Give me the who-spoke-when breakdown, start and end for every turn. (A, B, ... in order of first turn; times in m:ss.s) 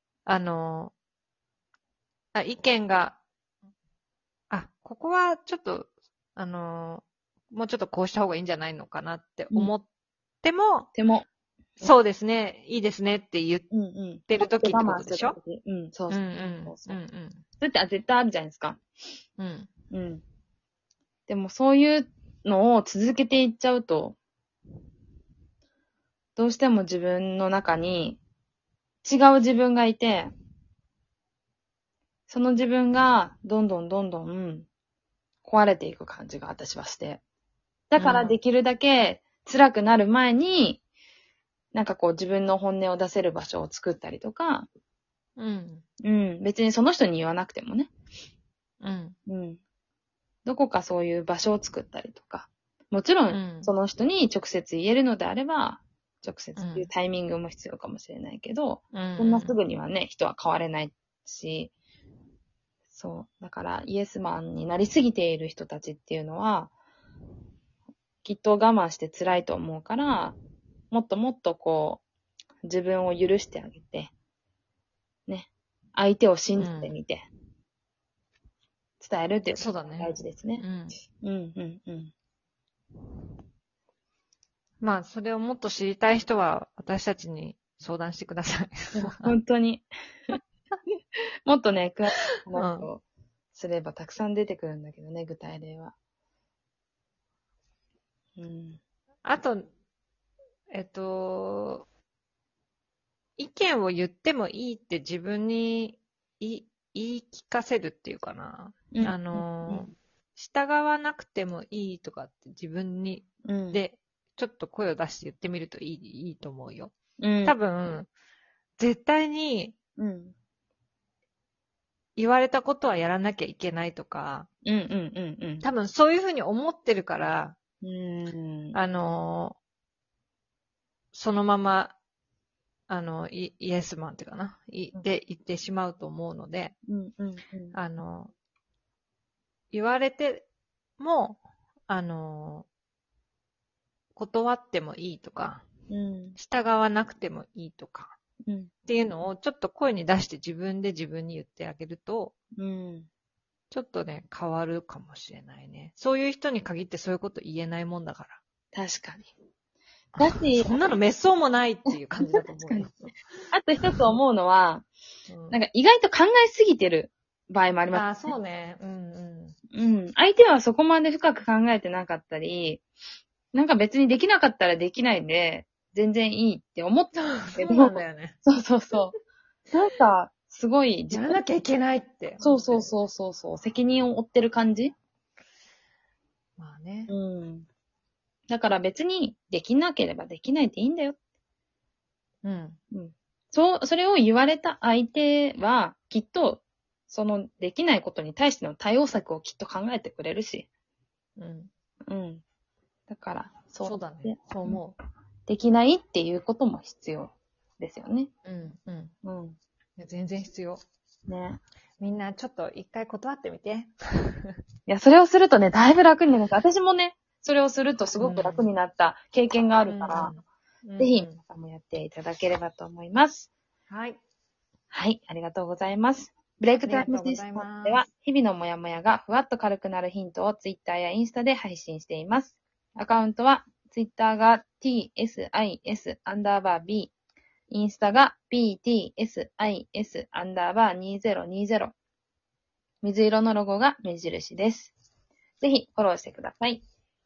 0:00.2-0:00.9 A
0:02.3-0:03.2 A
0:04.5-0:09.9 A
0:10.4-0:10.9 A
0:10.9-0:11.3 B
0:11.8-0:13.7 A
0:13.7-0:17.0 B
0:14.3-0:15.4 A
0:16.1-0:17.4 A
0:17.6-0:18.8 B
0:19.4-0:19.7 A
0:19.9-0:20.2 B
0:21.3-0:24.2 B
0:26.4-0:28.2 B
0:29.0-0:30.3 B
0:32.3-0:34.7 B
0:35.4-0:37.2 B
0:37.9-0:40.8 B
0:38.0-0:38.4 A
0:41.7-0:44.7 B
0:45.4-0:45.8 A
0:46.0-0:47.9 B
0:48.8-0:49.2 A
0:49.3-0:49.6 B
0:50.4-1:01.7 B
0:53.3-0:53.7 A
0:56.6-0:56.9 A
0:58.9-0:59.6 A
1:02.9-1:06.7 B
1:08.2-1:10.4 B
1:10.9-1:12.0 B
1:12.6-1:14.1 B
1:15.3-1:17.2 B
1:16.6-1:17.0 A
1:19.0-1:20.6 B
1:19.5-1:21.0 A
1:21.2-1:22.1 B
1:24.8-1:29.4 A
1:29.0-1:30.4 B
1:31.5-1:35.9 B
1:32.5-1:32.9 A
1:38.4-1:38.8 B
1:39.2-1:39.7 A
1:40.7-1:41.8 A
1:43.4-1:58.1 A
1:48.9-1:49.9 B
1:53.4-1:53.8 B
1:57.2-1:57.6 B
1:58.8-1:59.8 A
2:00.0-2:00.3 B
2:02.2-2:04.5 A
2:04.6-2:05.7 B
2:05.6-2:07.6 A
2:07.8-2:08.8 B
2:08.7-2:09.6 A
2:11.1-2:12.0 A
2:12.9-2:16.8 A
2:16.9-2:17.8 B
2:17.7-2:18.3 A
2:19.7-2:20.5 A
2:21.0-2:22.7 A
2:24.2-2:25.6 A
2:25.9-2:26.4 B
2:26.4-2:28.2 A
2:28.5-2:28.7 B
2:28.9-2:32.3 A
2:32.6-2:33.1 B
2:33.7-2:38.4 A
2:38.7-2:39.3 B
2:40.2-2:43.1 A
2:40.2-2:40.9 B
2:42.2-2:42.9 B
2:43.5-2:44.9 B
2:43.9-2:44.2 A
2:45.3-2:45.6 A
2:45.5-2:48.3 B
2:47.9-2:49.6 A
2:49.7-2:52.8 B
2:53.5-2:59.1 B
2:57.1-2:58.4 A
2:59.7-3:01.4 B
3:01.1-3:02.9 A
3:02.4-3:04.9 B
3:06.6-3:07.1 A
3:07.1-3:07.6 B
3:08.5-3:11.2 B
3:12.4-3:12.8 A
3:12.9-3:20.7 B
3:21.4-3:21.7 A
3:22.1-3:22.4 B
3:23.1-3:24.8 B
3:23.8-3:25.0 A
3:25.5-3:28.3 B
3:28.4-3:29.1 A
3:29.2-3:29.6 B
3:30.0-3:30.8 A
3:31.3-3:31.6 B
3:32.0-3:34.6 A
3:34.9-3:40.3 B
3:38.2-3:38.6 A
3:39.8-3:41.4 A
3:41.0-3:43.5 B
3:43.9-3:44.2 A
3:44.9-3:57.1 B
3:46.8-3:48.1 A
3:57.7-4:01.9 B
4:03.0-4:04.9 B
4:05.6-4:06.8 B